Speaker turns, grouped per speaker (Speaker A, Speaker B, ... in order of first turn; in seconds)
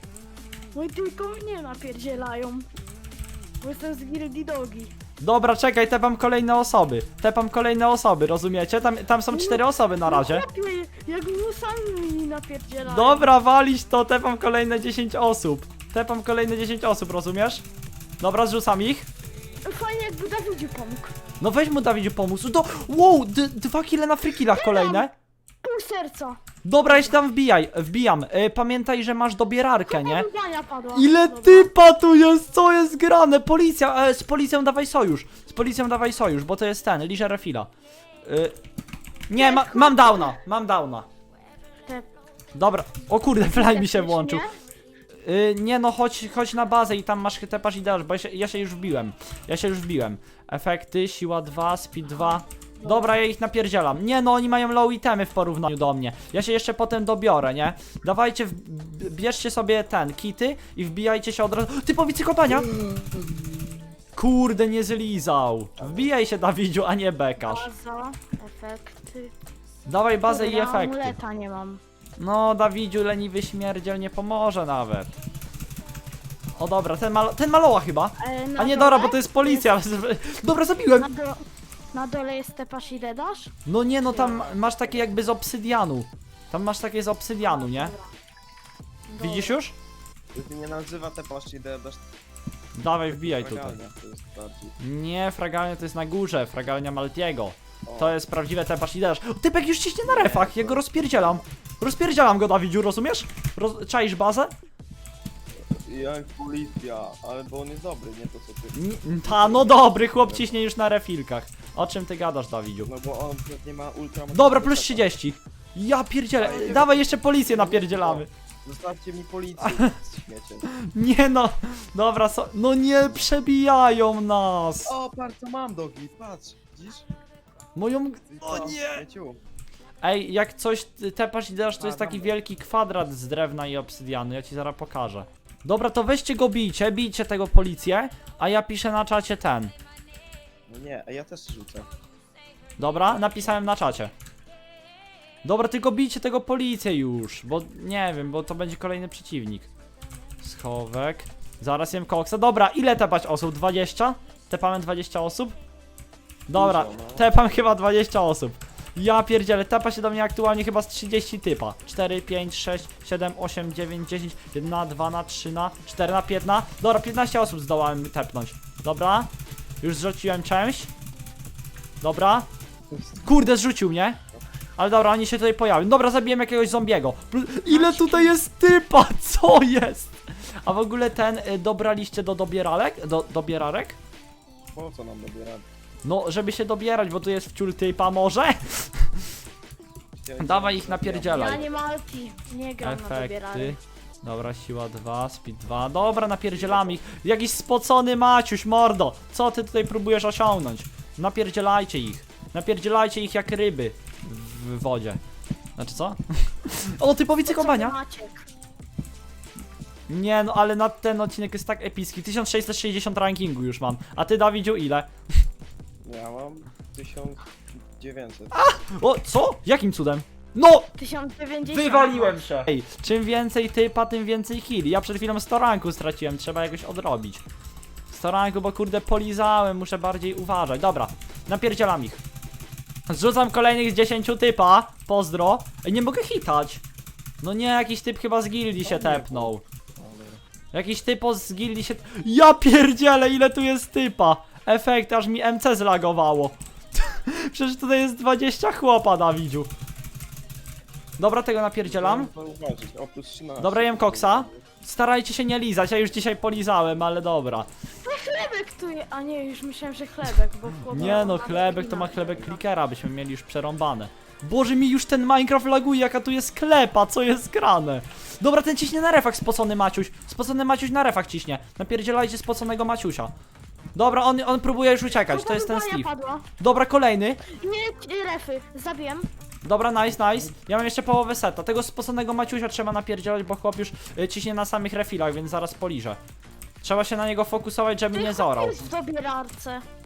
Speaker A: 0.7-2.7, 3.6-4.9, 9.3-13.3, 19.6-21.2, 24.3-25.1, 25.6-27.2, 29.9-31.7, 39.4-40.4, 43.4-44.5, 52.2-53.2, 67.4-69.3, 70.3-71.8, 78.2-79.8, 81.0-83.5, 84.1-84.5, 87.4-88.1, 89.1-89.6, 177.7-178.3, 191.2-193.8, 207.5-208.5, 221.0-222.4, 258.0-262.6, 275.1-276.5, 277.4-279.3, 288.1-289.9
Speaker B: 5.2-10.4, 12.8-17.6, 18.2-19.1, 21.4-25.1, 26.6-30.3, 30.9-37.7, 38.2-38.5, 39.3-41.1, 42.5-44.4, 45.2-62.7, 64.2-67.7, 69.9-71.2, 72.2-75.1, 76.6-81.1, 83.7-87.9, 89.2-89.8, 92.8-93.8, 94.8-104.5, 108.7-112.9, 114.3-118.3, 119.6-120.0, 120.7-124.9, 127.8-129.0, 130.0-139.7, 142.8-144.1, 145.4-149.7, 150.4-155.6, 156.5-169.3, 169.8-170.9, 172.0-172.5, 173.2-174.2, 174.8-184.0, 186.0-189.2, 190.4-191.7, 192.8-205.2, 205.8-208.0, 210.1-215.1, 218.5-220.9, 221.7-227.4, 228.1-232.2, 233.1-236.8, 237.4-239.6, 240.7-249.7, 251.2-252.3, 253.6-257.7, 260.9-273.3, 273.9-277.4, 279.6-286.2, 286.8-288.8
Speaker C: 62.5-63.8, 65.8-66.1, 84.1-85.1, 90.3-92.0, 93.1-94.8, 97.8-98.2, 100.0-101.4, 105.7-110.6, 112.8-115.1, 116.4-120.7, 124.8-127.1, 128.3-129.4, 131.8-132.4, 140.7-141.9, 143.1-143.7, 156.5-157.7, 172.9-173.4, 184.7-185.7, 190.2-191.8, 196.4-197.0, 216.0-218.6, 238.8-240.4, 251.8-254.7, 260.9-261.6